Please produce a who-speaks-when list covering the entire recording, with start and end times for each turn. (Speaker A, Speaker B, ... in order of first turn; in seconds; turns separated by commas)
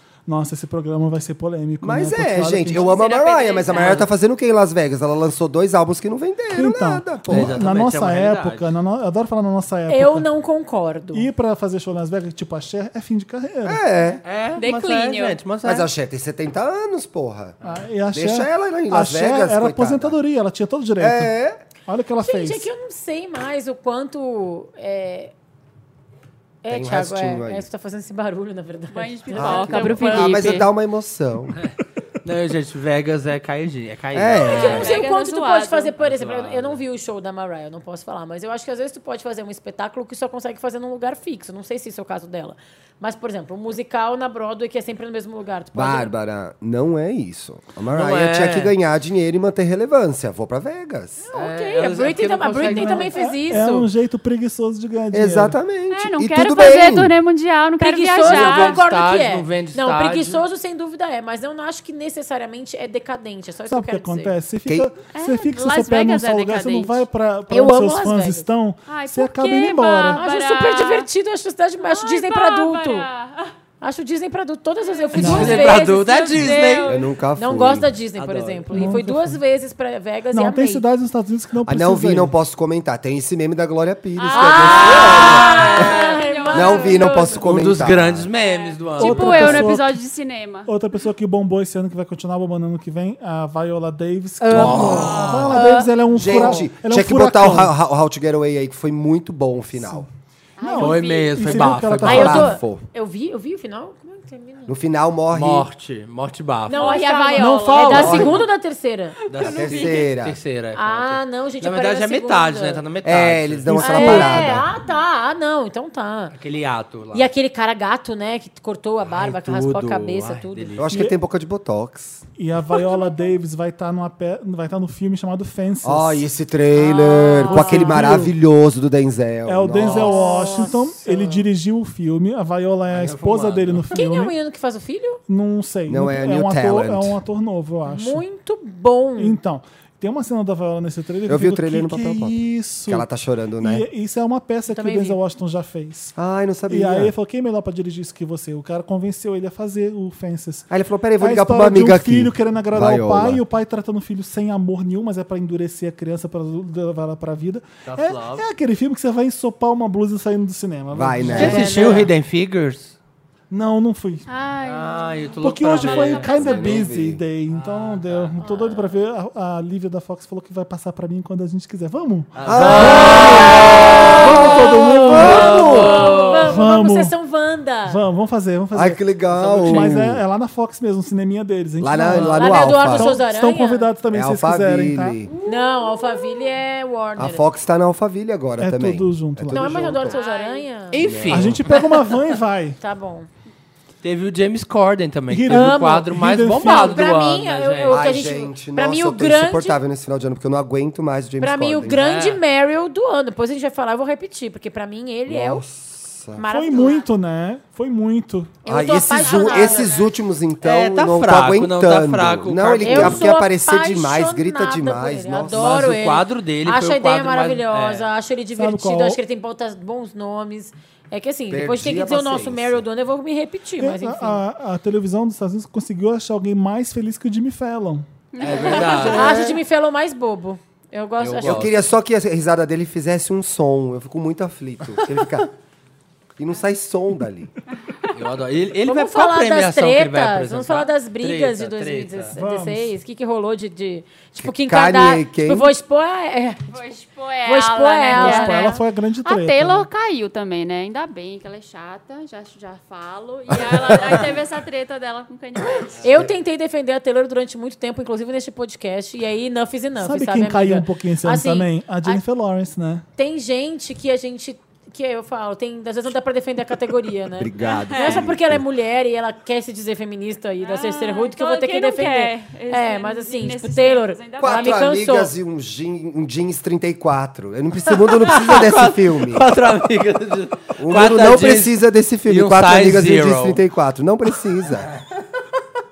Speaker A: 0.3-2.9, Speaker B: 1.8-7.6, Speaker C: 2.8-4.0, Speaker D: 3.6-4.1, Speaker A: 6.5-10.3, Speaker D: 7.3-8.7, Speaker E: 9.9-11.3, Speaker A: 11.1-13.8, Speaker B: 13.7-14.2, Speaker D: 14.2-15.9, Speaker C: 14.6-15.4, Speaker B: 15.6-17.6, Speaker A: 17.6-21.3, Speaker B: 18.1-20.2, Speaker B: 21.0-21.6, Speaker A: 21.9-22.7, Speaker E: 22.2-25.3, Speaker E: 26.6-30.4, Speaker B: 26.7-27.7, Speaker C: 28.9-30.7, Speaker B: 29.3-31.6, Speaker D: 32.2-34.9, Speaker B: 34.1-34.9, Speaker C: 34.4-35.9, Speaker E: 34.4-46.1, Speaker D: 36.0-36.8, Speaker B: 45.8-51.2, Speaker D: 47.9-48.7, Speaker E: 51.2-53.9, Speaker D: 51.3-53.1, Speaker A: 52.6-55.6, Speaker B: 55.1-57.1, Speaker C: 55.9-58.8, Speaker E: 57.8-64.3, Speaker D: 58.2-60.4, Speaker A: 63.7-70.2, Speaker B: 64.7-64.9, Speaker C: 65.1-67.0, Speaker E: 67.5-68.5, Speaker C: 68.9-71.1, Speaker E: 70.1-73.1, Speaker C: 71.9-73.5, Speaker E: 73.8-76.5, Speaker C: 74.9-77.1, Speaker D: 75.2-76.9, Speaker A: 75.2-75.6, Speaker B: 76.9-77.9, Speaker E: 77.4-80.8, Speaker D: 78.2-78.7, Speaker A: 78.7-79.4, Speaker A: 80.3-82.3, Speaker B: 81.7-85.9, Speaker C: 84.2-87.3, Speaker E: 84.3-87.4, Speaker B: 86.5-88.3, Speaker D: 87.4-89.7, Speaker C: 88.4-90.7, Speaker A: 89.0-90.0, Speaker A: 90.7-97.7, Speaker E: 94.4-96.6, Speaker D: 94.5-95.5, Speaker B: 94.6-95.0, Speaker B: 96.2-100.1, Speaker C: 100.6-101.7, Speaker A: 100.6-102.6, Speaker D: 100.8-102.5, Speaker B: 102.0-102.8, Speaker E: 102.0-104.7, Speaker B: 104.7-105.7, Speaker D: 105.3-107.1, Speaker E: 106.7-109.2, Speaker C: 106.7-108.4, Speaker A: 107.3-108.4, Speaker B: 107.9-108.4, Speaker D: 109.3-114.0, Speaker C: 109.4-110.1, Speaker B: 109.4-110.4, Speaker E: 110.8-112.8, Speaker B: 113.0-114.7, Speaker A: 113.7-114.5, Speaker E: 113.8-116.3, Speaker D: 116.3-117.3, Speaker E: 117.1-120.8, Speaker D: 119.1-120.9, Speaker B: 120.8-122.2, Speaker A: 122.4-126.2, Speaker E: 122.7-123.2, Speaker B: 125.8-130.3, Speaker E: 126.8-128.1, Speaker A: 127.5-128.3, Speaker A: 129.5-134.3, Speaker E: 130.0-131.5, Speaker D: 132.9-133.9, Speaker E: 133.9-135.2, Speaker A: 135.3-138.2, Speaker B: 135.9-137.2, Speaker E: 137.9-139.4, Speaker A: 139.2-143.1, Speaker B: 141.3-143.9, Speaker A: 143.6-146.1, Speaker E: 144.7-145.2, Speaker B: 146.2-147.1, Speaker A: 146.7-150.7, Speaker B: 150.7-153.4, Speaker A: 151.2-162.1, Speaker D: 157.9-158.4, Speaker B: 160.9-161.7, Speaker E: 161.3-162.1, Speaker D: 161.3-162.9, Speaker A: 163.5-164.3, Speaker C: 164.3-166.8, Speaker D: 164.6-166.4, Speaker A: 165.4-177.1, Speaker B: 166.3-167.2, Speaker D: 167.5-168.3, Speaker E: 168.4-168.8, Speaker D: 172.3-176.5, Speaker B: 172.5-174.5, Speaker E: 174.2-178.0, Speaker B: 175.1-176.0, Speaker A: 177.9-179.0, Speaker B: 178.7-180.2, Speaker D: 179.3-179.9, Speaker A: 179.6-185.2, Speaker B: 181.8-183.2, Speaker E: 182.4-183.9, Speaker B: 184.1-185.3, Speaker C: 185.4-186.4, Speaker E: 185.5-187.4, Speaker B: 187.2-190.2, Speaker A: 188.6-190.0, Speaker E: 189.5-191.0, Speaker C: 190.1-190.7, Speaker D: 190.9-191.7, Speaker B: 191.0-191.6, Speaker A: 191.3-192.8, Speaker E: 192.8-193.3, Speaker D: 194.0-198.0, Speaker A: 195.3-197.1, Speaker E: 195.5-199.8, Speaker B: 197.9-202.0, Speaker E: 201.4-205.6, Speaker D: 201.9-202.4, Speaker B: 205.3-206.4, Speaker E: 206.4-207.1, Speaker A: 206.5-208.6, Speaker E: 208.7-209.9, Speaker B: 208.7-215.9, Speaker D: 210.6-213.3, Speaker E: 212.8-224.4, Speaker D: 215.5-218.1, Speaker A: 218.6-219.2, Speaker B: 221.5-222.8, Speaker A: 223.8-228.1, Speaker C: 228.3-229.3, Speaker D: 228.4-229.3, Speaker E: 228.7-231.7, Speaker B: 228.7-229.6, Speaker D: 231.2-231.8, Speaker B: 231.4-235.5, Speaker B: 236.4-237.5, Speaker D: 238.1-242.3, Speaker E: 238.8-246.8, Speaker A: 242.4-242.9, Speaker B: 244.4-245.7, Speaker C: 246.7-256.1, Speaker E: 247.4-248.8, Speaker A: 248.2-249.9, Speaker E: 256.0-262.2, Speaker A: 260.0-263.1, Speaker E: 263.2-275.3, Speaker B: 267.4-268.6, Speaker C: 267.6-268.2, Speaker C: 270.6-274.8, Speaker B: 274.4-279.5, Speaker D: 278.2-283.6, Speaker B: 280.8-284.9